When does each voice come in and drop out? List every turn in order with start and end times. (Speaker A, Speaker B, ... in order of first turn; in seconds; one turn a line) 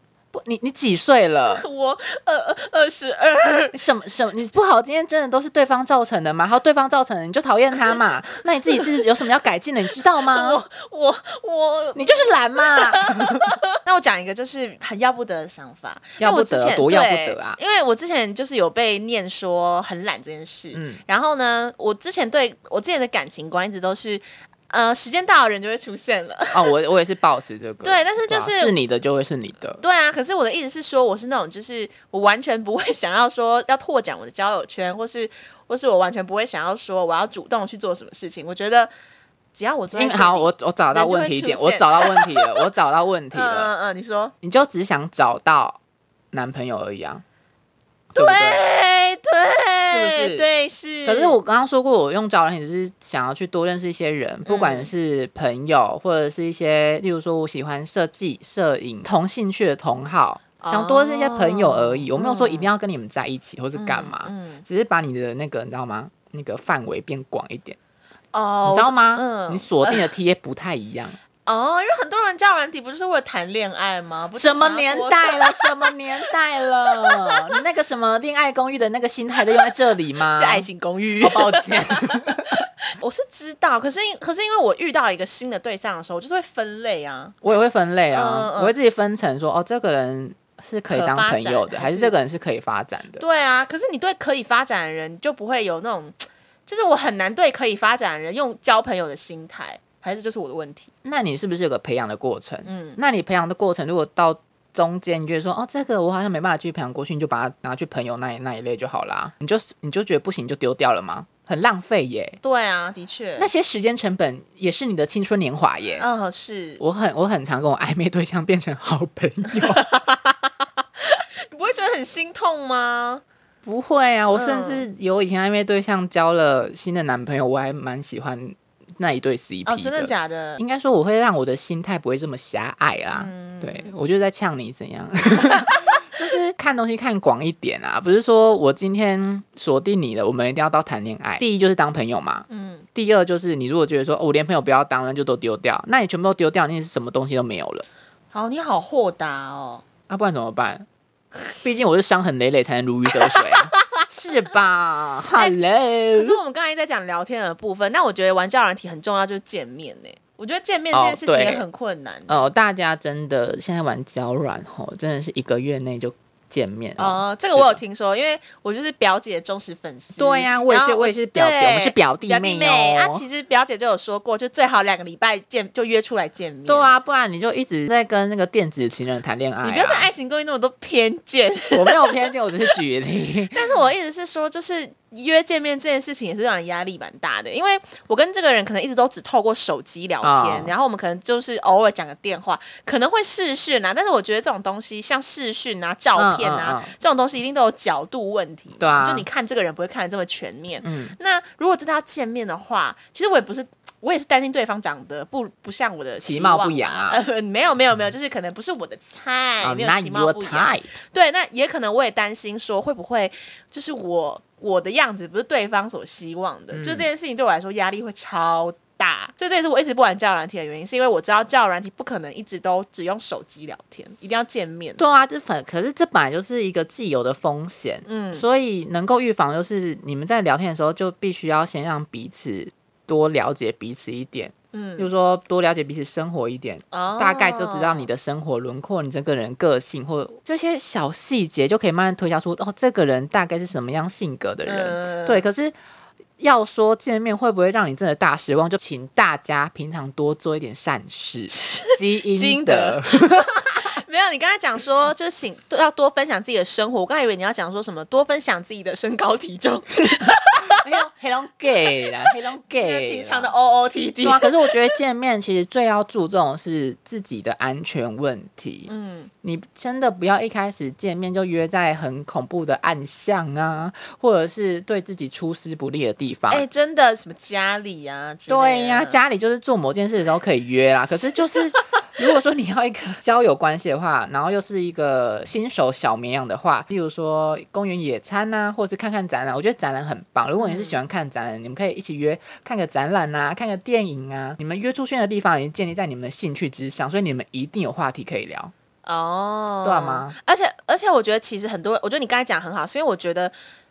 Speaker A: 0.3-1.6
Speaker B: 1.5-3.8
Speaker A: 3.7-10.6
Speaker B: 10.3-26.7
Speaker A: 11.9-13.4
Speaker A: 16.2-17.6
Speaker A: 20.7-21.0
Speaker A: 26.5-29.8
Speaker B: 27.8-28.8
Speaker B: 29.8-38.9
Speaker B: 39.5-42.7
Speaker A: 39.9-43.7
Speaker B: 43.3-44.3
Speaker A: 44.4-45.8
Speaker A: 46.3-47.2
Speaker A: 48.1-48.6
Speaker B: 48.1-51.4
Speaker A: 49.9-50.5
Speaker A: 51.0-67.8
Speaker B: 54.5-54.9
Speaker B: 60.6-62.7
Speaker B: 63.8-64.7
Speaker B: 68.3-70.1
Speaker A: 68.7-71.2
Speaker B: 71.5-76.0
Speaker A: 74.3-80.7
Speaker B: 76.9-77.4
Speaker B: 80.3-87.5
Speaker A: 81.2-82.6
Speaker A: 87.4-93.2
Speaker B: 88.1-88.7
Speaker B: 90.9-92.2
Speaker B: 93.2-100.9
Speaker A: 101.0-112.4
Speaker B: 102.7-103.0
Speaker B: 112.4-113.5
Speaker A: 113.4-116.0
Speaker B: 116.0-116.8
Speaker A: 116.8-119.9
Speaker B: 119.6-123.2
Speaker A: 123.6-147.9
Speaker B: 124.3-124.9
Speaker B: 129.7-130.6
Speaker B: 133.1-133.9
Speaker B: 142.5-142.9
Speaker B: 148.3-149.8
Speaker A: 150.1-150.9
Speaker A: 151.6-156.4
Speaker B: 153.3-154.0
Speaker B: 156.2-162.3
Speaker A: 160.9-161.6
Speaker A: 162.3-167.8
Speaker B: 167.0-176.9
Speaker A: 170.2-173.2
Speaker A: 176.7-180.1
Speaker B: 179.6-182.7
Speaker A: 181.7-183.6
Speaker B: 183.5-225.0
Speaker A: 190.2-190.7
Speaker A: 196.2-196.9
Speaker A: 198.8-199.3
Speaker A: 200.8-201.2
Speaker A: 206.2-207.2
Speaker A: 209.6-210.9
Speaker A: 216.7-217.1
Speaker A: 225.0-245.8
Speaker B: 228.1-228.4
Speaker B: 234.7-235.1
Speaker B: 236.9-238.1
Speaker B: 244.7-245.5
Speaker A: 246.4-253.8
Speaker B: 251.5-260.8
Speaker A: 260.6-263.5
Speaker B: 262.8-264.9
Speaker A: 264.2-268.9
Speaker B: 268.9-269.3
Speaker A: 269.4-276.6
Speaker B: 276.5-279.2
Speaker A: 278.5-298.7
Speaker B: 290.6-291.0
Speaker B: 299.1-303.5
Speaker A: 299.8-300.4